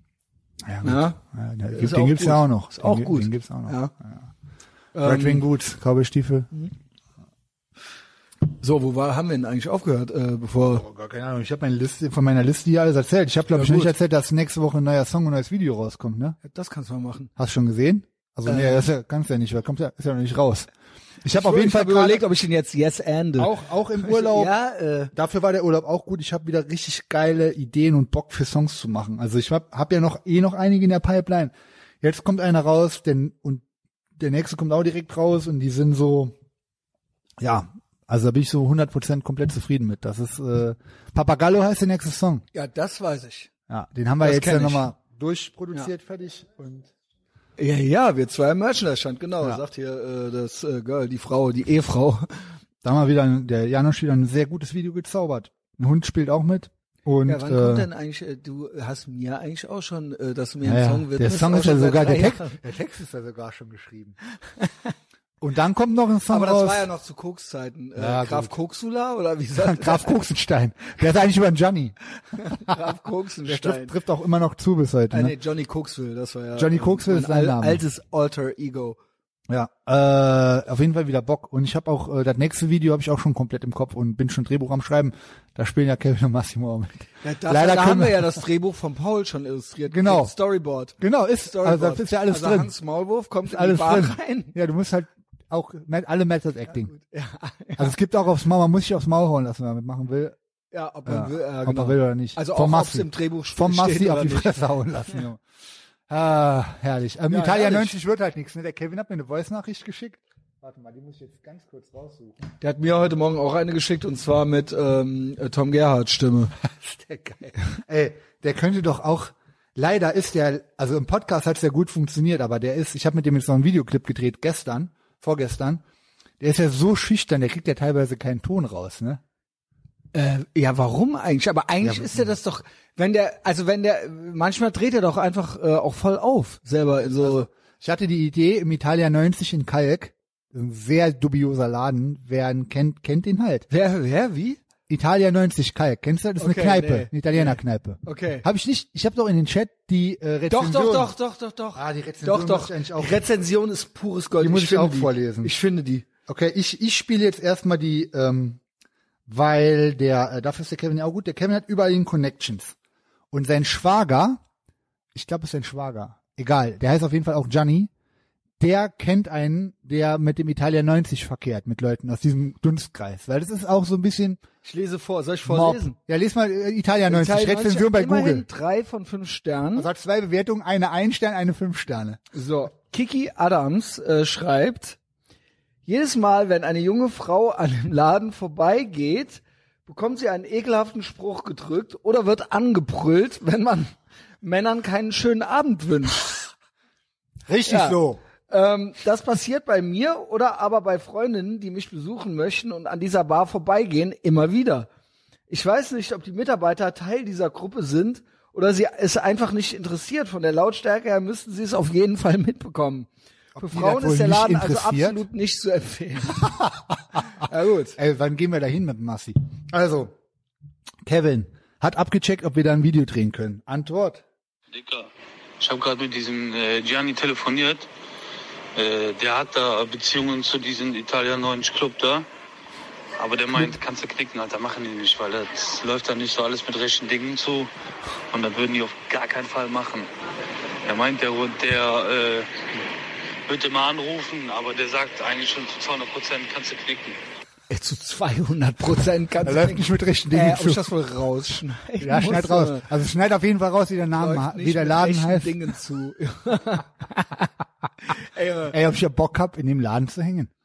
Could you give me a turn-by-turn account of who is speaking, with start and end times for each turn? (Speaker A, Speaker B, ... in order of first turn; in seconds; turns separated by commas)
Speaker A: 0.6-4.3, Speaker B: 0.8-1.2, Speaker B: 1.7-3.9, Speaker B: 4.9-5.4, Speaker A: 5.0-6.5, Speaker B: 8.5-10.8, Speaker A: 10.7-16.4, Speaker B: 13.5-13.9, Speaker B: 16.4-17.3, Speaker A: 17.4-20.7, Speaker B: 18.4-18.9, Speaker A: 21.2-22.2, Speaker B: 21.3-25.1, Speaker A: 23.4-24.5, Speaker A: 25.1-33.6, Speaker A: 34.2-36.3, Speaker A: 37.4-42.4, Speaker B: 42.5-43.5, Speaker A: 43.7-46.9, Speaker B: 44.2-44.9, Speaker B: 47.6-52.3, Speaker A: 52.8-57.9, Speaker B: 57.3-62.6, Speaker A: 60.6-64.2, Speaker A: 65.4-66.9, Speaker B: 66.3-70.2, Speaker A: 68.0-68.5, Speaker A: 69.5-72.0, Speaker B: 72.3-74.0, Speaker A: 73.4-75.3, Speaker B: 75.1-79.0, Speaker A: 76.6-77.8, Speaker A: 79.5-88.4, Speaker B: 87.2-94.5, Speaker A: 89.9-90.3, Speaker A: 91.0-92.7, Speaker A: 93.4-96.9, Speaker B: 96.7-97.9, Speaker A: 97.8-100.3, Speaker B: 100.7-105.2, Speaker A: 101.1-105.4, Speaker A: 106.1-112.3, Speaker B: 107.3-107.9, Speaker B: 112.6-116.5, Speaker A: 116.6-125.8, Speaker A: 126.4-129.2, Speaker B: 130.1-137.5, Speaker A: 131.8-132.3, Speaker A: 137.0-143.7, Speaker B: 143.7-144.6, Speaker A: 144.9-151.2, Speaker B: 146.4-148.4, Speaker B: 150.5-156.1, Speaker A: 151.7-153.2, Speaker A: 154.4-155.6, Speaker A: 156.3-158.6, Speaker A: 159.3-162.7, Speaker A: 163.3-164.4, Speaker A: 165.1-167.9, Speaker A: 168.6-174.4, Speaker B: 174.6-176.0, Speaker A: 175.4-178.4, Speaker B: 177.1-179.9, Speaker A: 179.7-182.2, Speaker B: 182.3-185.0, Speaker B: 185.8-196.3, Speaker A: 197.5-198.2, Speaker B: 197.7-204.9, Speaker B: 205.5-213.1, Speaker A: 213.6-215.2, Speaker B: 213.6-216.5, Speaker A: 216.4-216.9, Speaker B: 217.4-218.0, Speaker A: 217.9-220.1, Speaker A: 221.0-224.2, Speaker C: 224.7-225.1, Speaker C: 225.6-227.9, Speaker C: 228.7-232.3, Speaker C: 233.2-237.7, Speaker C: 238.3-240.1, Speaker C: 240.8-242.6, Speaker C: 243.5-247.2, Speaker B: 247.7-252.9, Speaker A: 249.4-250.9, Speaker A: 252.0-255.7, Speaker B: 254.2-257.5, Speaker B: 258.1-258.8, Speaker A: 258.7-260.5